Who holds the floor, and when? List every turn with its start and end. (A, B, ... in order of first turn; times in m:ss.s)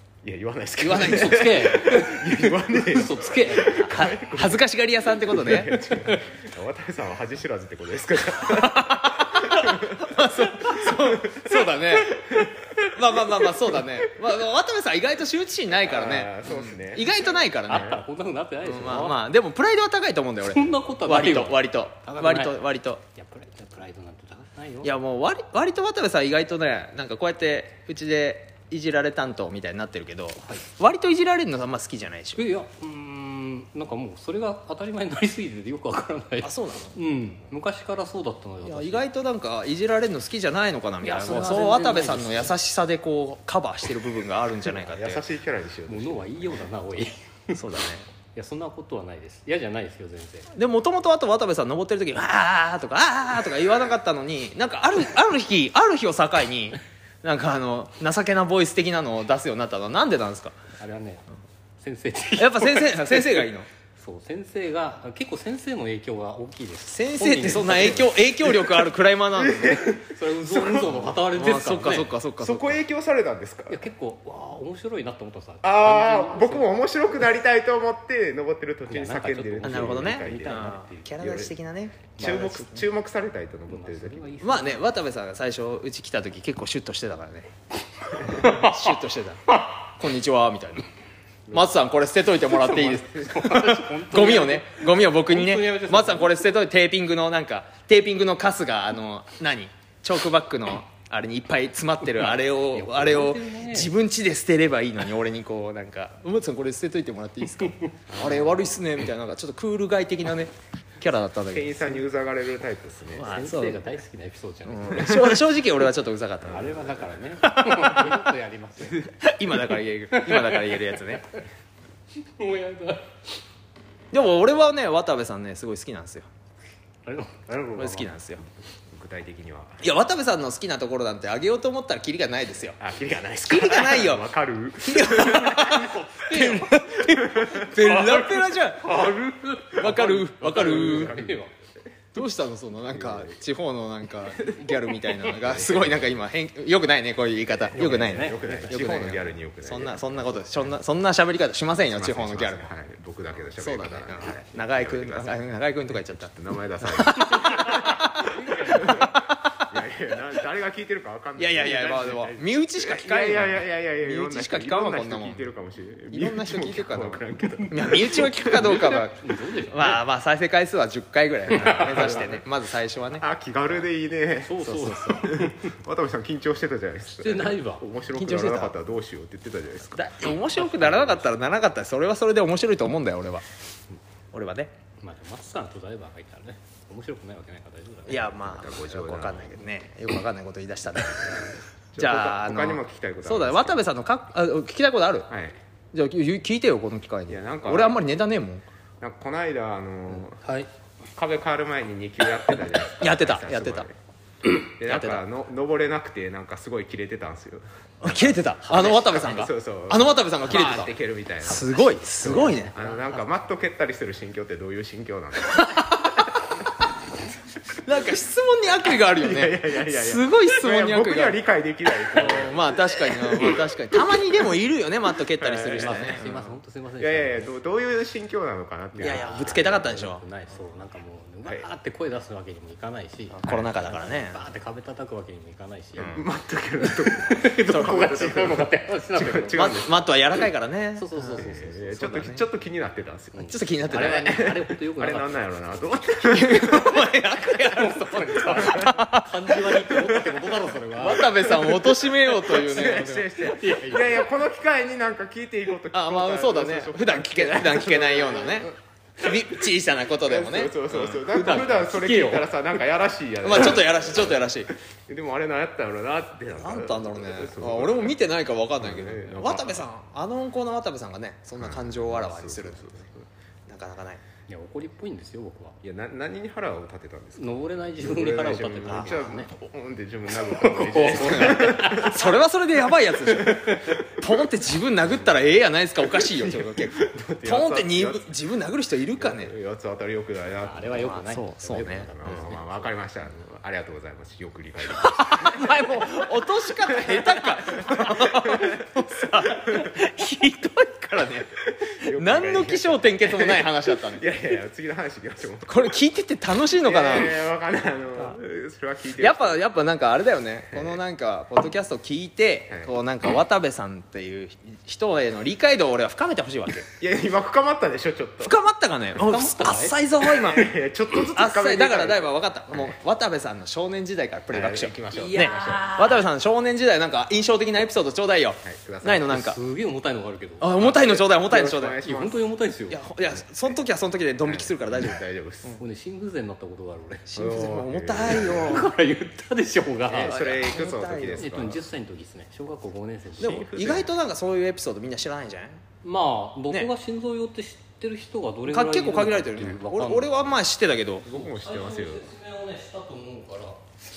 0:00.2-0:11.7 A
0:00.8-0:02.1 B
0:00.9-0:02.1 C
0:02.8-0:04.1 C
0:03.8-0:05.8 B
0:05.8-0:06.2 C
0:08.4-0:18.0 B
0:12.4-0:13.4 A
0:15.7-0:18.0 A
0:17.7-0:19.2 C
0:18.6-0:23.0 B
0:20.5-0:25.0 C
0:24.8-0:32.4 B
0:32.3-0:39.1 C
0:36.4-0:37.0 B
0:38.6-0:45.2 B
0:41.0-0:42.6 C
0:44.9-0:46.6 A
0:45.9-0:47.6 C
0:47.5-0:48.1 B
0:48.3-0:50.5 C
0:50.5-1:00.6 B
1:00.8-1:01.3 C
1:01.8-1:08.2 C
1:02.4-1:03.7 B
1:06.9-1:09.8 B
1:09.4-1:11.2 A
1:09.9-1:12.2 C
1:11.4-1:12.8 B
1:12.4-1:13.8 A
1:13.7-1:16.7 C
1:15.6-1:21.5 A
1:18.9-1:21.1 C
1:19.6-1:22.9 B
1:22.1-1:24.4 A
1:22.2-1:22.5 C
1:23.7-1:24.9 C
1:24.4-1:27.5 B
1:28.2-1:30.9 B
1:28.2-1:28.9 C
1:31.5-1:52.0 B
1:32.5-1:36.4 C
1:42.2-1:43.9 C
1:48.1-1:48.6 A
1:51.5-1:53.4 A
1:53.2-1:55.3 C
1:53.2-1:53.8 B
1:54.7-1:58.3 B
1:54.9-1:55.4 A
1:56.5-1:59.2 C
1:56.5-1:56.8 A
1:58.8-2:01.3 B
2:00.1-2:01.4 C
2:02.2-2:03.2 C
2:04.1-2:06.3 B
2:07.0-2:08.1 C
2:07.8-2:08.4 B
2:08.9-2:09.9 A
2:09.8-2:12.8 B
2:12.8-2:15.9 A
2:13.4-2:19.1 B
2:15.5-2:21.5 C
2:17.0-2:18.3 A
2:19.7-2:21.2 B
2:20.5-2:21.5 A
2:22.1-2:32.7 B
2:22.9-2:23.4 A
2:24.4-2:26.1 A
2:27.6-2:30.8 A
2:27.8-2:29.2 C
2:31.8-2:35.4 A
2:33.6-2:36.3 B
2:36.1-2:49.0 A
2:36.8-2:39.6 B
2:37.3-2:39.1 C
2:41.4-2:45.5 B
2:46.1-2:53.2 B
2:48.4-2:50.0 C
2:51.5-2:52.3 C
2:51.5-2:52.4 A
2:53.2-3:00.1 A
2:54.4-2:55.8 C
2:57.2-2:57.8 C
2:58.1-2:58.8 B
2:59.9-3:03.4 B
3:00.6-3:01.3 C
3:04.3-3:04.7 B
3:05.0-3:08.6 C
3:08.1-3:15.3 B
3:08.4-3:09.6 A
3:11.0-3:13.9 A
3:15.3-3:15.6 A
3:15.9-3:18.7 B
3:17.3-3:18.0 A
3:19.0-3:20.4 A
3:20.4-3:20.7 C
3:21.2-3:24.0 A
3:23.0-3:23.9 B
3:24.6-3:36.0 A
3:24.8-3:25.2 B
3:28.0-3:32.7 B
3:32.3-3:33.3 C
3:35.5-3:36.4 B
3:37.8-3:41.4 B
3:39.1-3:43.7 A
3:42.1-3:46.5 B
3:45.4-3:46.4 A
3:45.8-3:47.5 C
3:47.0-3:50.1 A
3:49.0-3:56.2 C
3:49.0-3:50.2 B
3:53.3-3:54.4 B
3:56.0-3:56.2 B
3:56.0-4:00.1 A
3:56.8-3:59.7 C
3:59.5-4:02.4 B
4:01.0-4:01.8 C
4:01.4-4:07.0 A
4:03.3-4:11.3 C
4:03.5-4:04.4 B
4:06.2-4:09.6 B
4:08.6-4:08.9 A
4:10.0-4:10.4 A
4:11.0-4:13.5 B
4:11.3-4:18.7 A
4:13.4-4:14.3 C
4:15.9-4:21.2 B
4:20.2-4:28.2 A
4:21.3-4:22.8 C
4:23.4-4:24.7 B
4:26.6-4:33.0 B
4:28.8-4:29.9 A
4:31.6-4:33.2 A
4:33.7-4:34.2 B
4:34.5-4:35.8 C
4:35.8-4:42.4 A
4:37.4-4:39.5 C
4:38.9-4:39.3 B
4:40.4-4:42.2 C
4:41.0-4:49.5 B
4:43.2-4:44.4 A
4:45.1-4:45.4 A
4:46.1-4:48.3 A
4:49.2-4:51.2 A
4:50.6-4:52.9 C
4:51.0-4:52.5 B
4:51.7-4:56.2 A
4:55.0-5:04.3 B
4:56.8-5:00.0 A
5:01.7-5:06.0 A
5:05.7-5:07.4 B
5:06.8-5:09.6 A
5:09.2-5:16.9 B
5:10.7-5:11.0 A
5:17.0-5:18.6 A
5:18.4-5:20.8 B
5:19.2-5:20.0 C
5:20.3-5:22.9 A
5:21.3-5:29.6 B
5:24.5-5:26.0 A
5:25.2-5:26.2 C
5:28.6-5:29.5 A
5:29.3-5:30.8 C
5:30.6-5:32.0 B
5:30.7-5:32.5 A
5:32.0-5:33.0 C
5:32.9-5:35.7 B
5:34.4-5:35.8 A
5:35.8-5:37.3 C
5:37.3-5:38.9 B
5:37.4-5:38.9 A
5:38.4-5:40.4 C
5:40.1-5:41.9 A
5:40.2-5:41.5 B
5:41.4-5:43.7 C
5:43.4-5:44.1 A
5:43.4-5:45.8 B
5:46.0-5:50.6 C
5:48.7-5:51.3 B
5:51.2-5:52.3 A
5:51.3-5:53.8 C